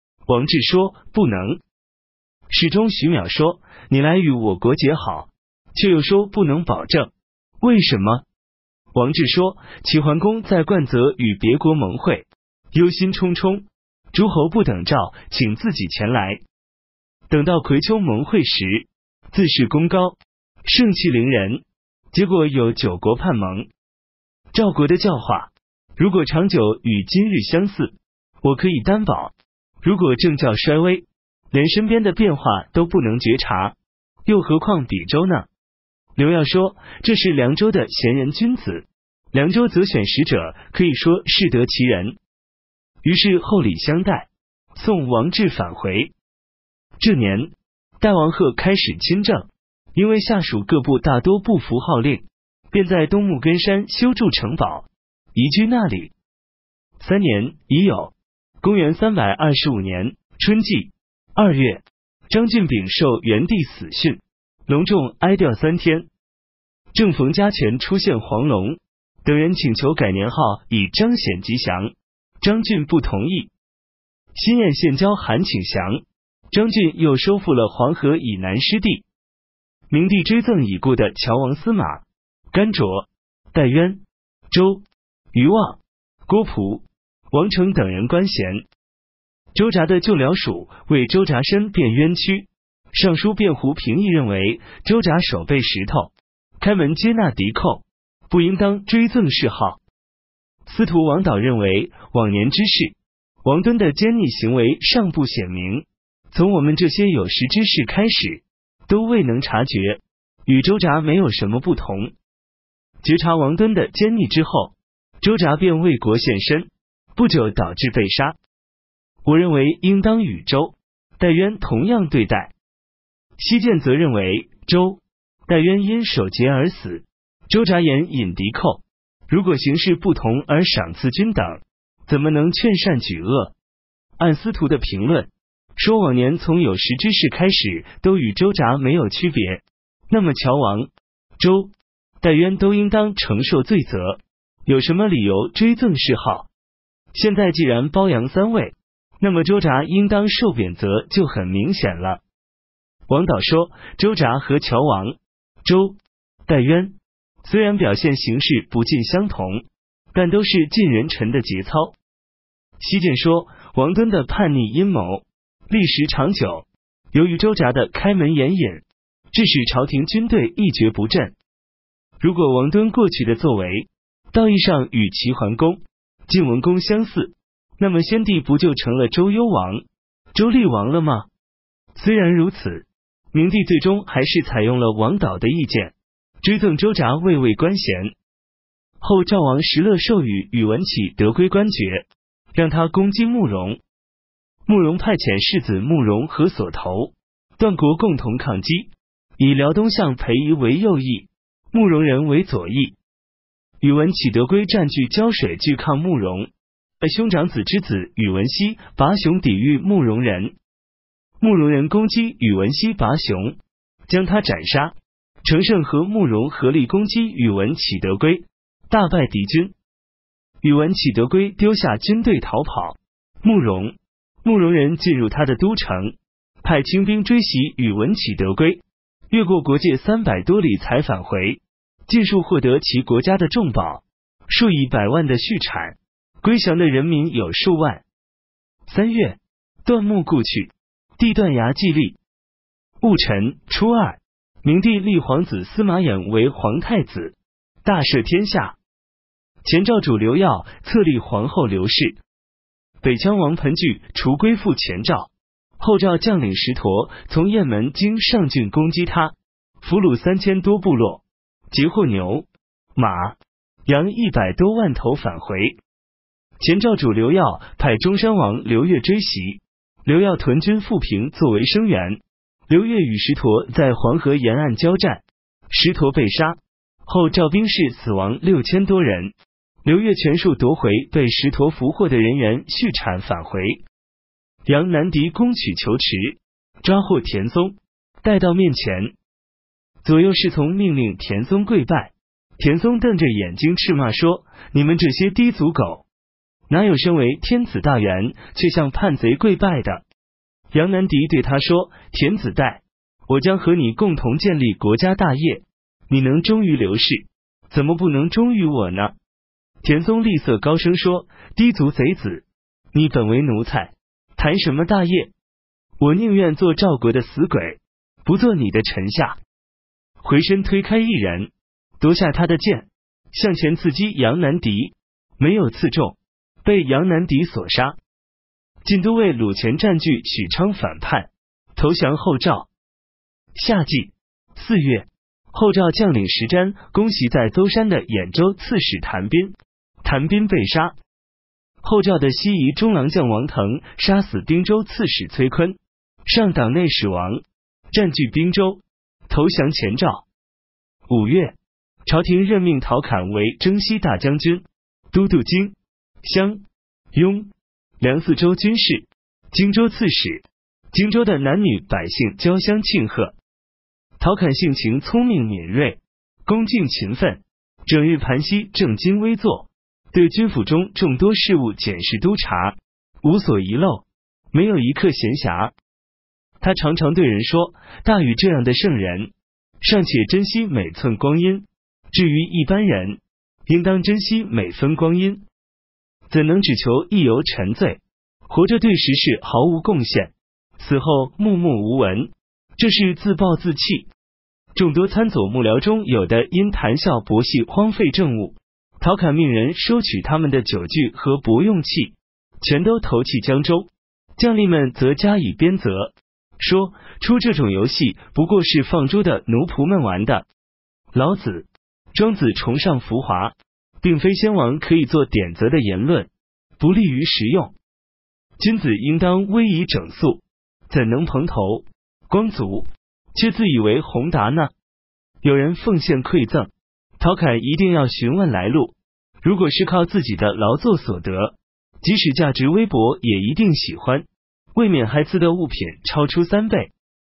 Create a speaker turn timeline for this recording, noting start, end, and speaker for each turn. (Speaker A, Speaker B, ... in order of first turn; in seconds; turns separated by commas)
Speaker A: 0.3-1.6, Speaker A: 2.5-8.2, Speaker A: 8.9-16.4, Speaker A: 17.3-23.7, Speaker A: 24.5-35.5, Speaker A: 36.1-42.1, Speaker A: 43.0-46.1, Speaker A: 47.0-56.1, Speaker A: 57.0-66.1, Speaker A: 66.9-73.5, Speaker A: 74.3-79.0, Speaker A: 79.9-88.6, Speaker A: 89.5-99.8, Speaker A: 100.6-112.1, Speaker A: 113.0-118.3, Speaker A: 119.2-122.5, Speaker A: 123.4-133.5, Speaker A: 134.2-146.5, Speaker A: 147.1-152.2, Speaker A: 153.1-162.0, Speaker A: 162.8-171.3, Speaker A: 172.2-179.8, Speaker A: 180.3-181.3, Speaker A: 181.9-188.1, Speaker A: 189.0-193.8, Speaker A: 194.7-202.9, Speaker A: 203.8-210.5, Speaker A: 211.4-219.7, Speaker A: 220.6-238.0, Speaker A: 238.9-242.2, Speaker A: 243.0-248.8, Speaker A: 249.6-252.2, Speaker A: 253.0-265.8, Speaker A: 266.6-283.8, Speaker A: 284.6-289.1, Speaker A: 290.0-296.1, Speaker A: 296.7-300.0, Speaker A: 300.7-309.1, Speaker A: 309.8-315.3, Speaker A: 316.0-319.4, Speaker A: 320.2-328.0, Speaker A: 328.8-332.7, Speaker A: 333.5-341.0, Speaker A: 341.8-350.2, Speaker A: 351.1-363.3, Speaker A: 364.2-375.7, Speaker A: 376.6-379.3, Speaker A: 379.8-385.4, Speaker A: 386.3-394.1, Speaker A: 394.7-410.5, Speaker A: 411.1-417.7, Speaker A: 418.6-424.7, Speaker A: 425.4-436.9